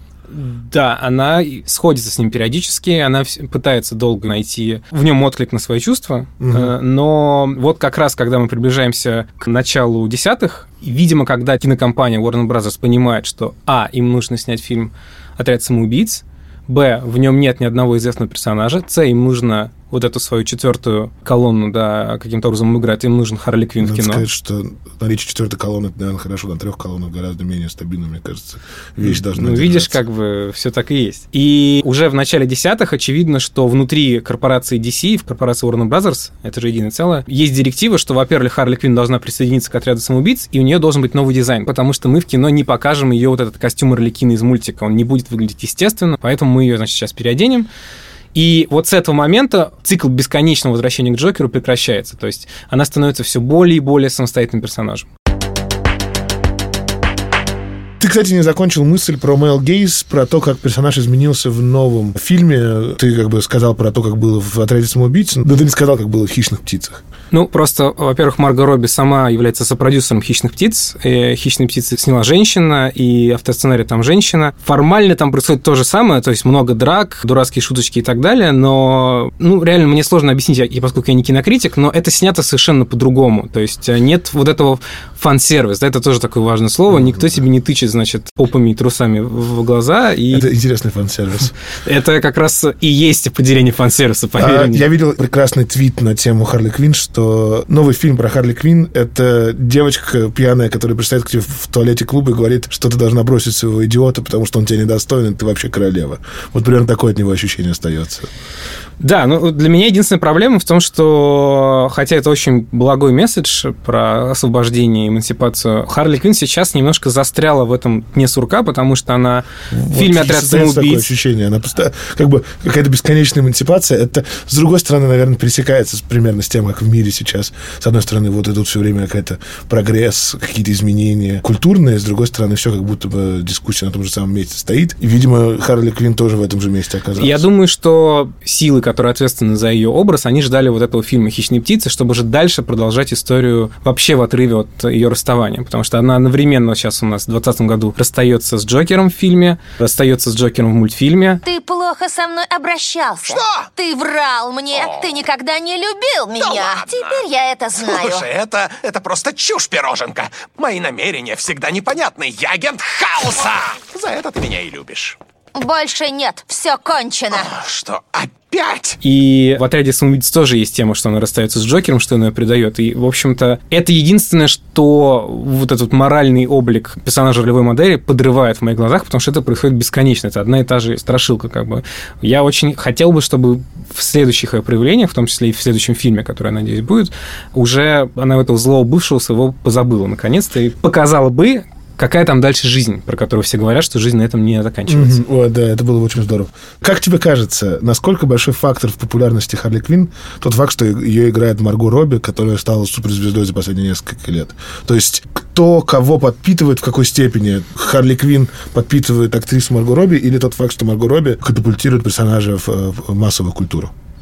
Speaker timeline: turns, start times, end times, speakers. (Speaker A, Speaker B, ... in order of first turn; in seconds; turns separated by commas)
Speaker A: 0.3-24.3, Speaker B: 6.4-6.7, Speaker B: 23.8-30.0, Speaker A: 29.0-47.7, Speaker A: 48.3-55.1, Speaker B: 58.0-67.0, Speaker A: 67.3-90.5, Speaker B: 86.9-87.4, Speaker B: 90.3-91.5, Speaker A: 91.8-94.9, Speaker B: 94.4-108.3, Speaker A: 109.0-121.1, Speaker B: 119.7-137.5, Speaker A: 137.2-151.4, Speaker C: 151.4-158.3, Speaker D: 153.2-153.7, Speaker D: 154.7-155.1, Speaker D: 156.4-157.2, Speaker D: 157.8-165.2, Speaker C: 165.6-167.5, Speaker D: 167.3-169.0, Speaker A: 169.0-195.2, Speaker B: 194.9-213.9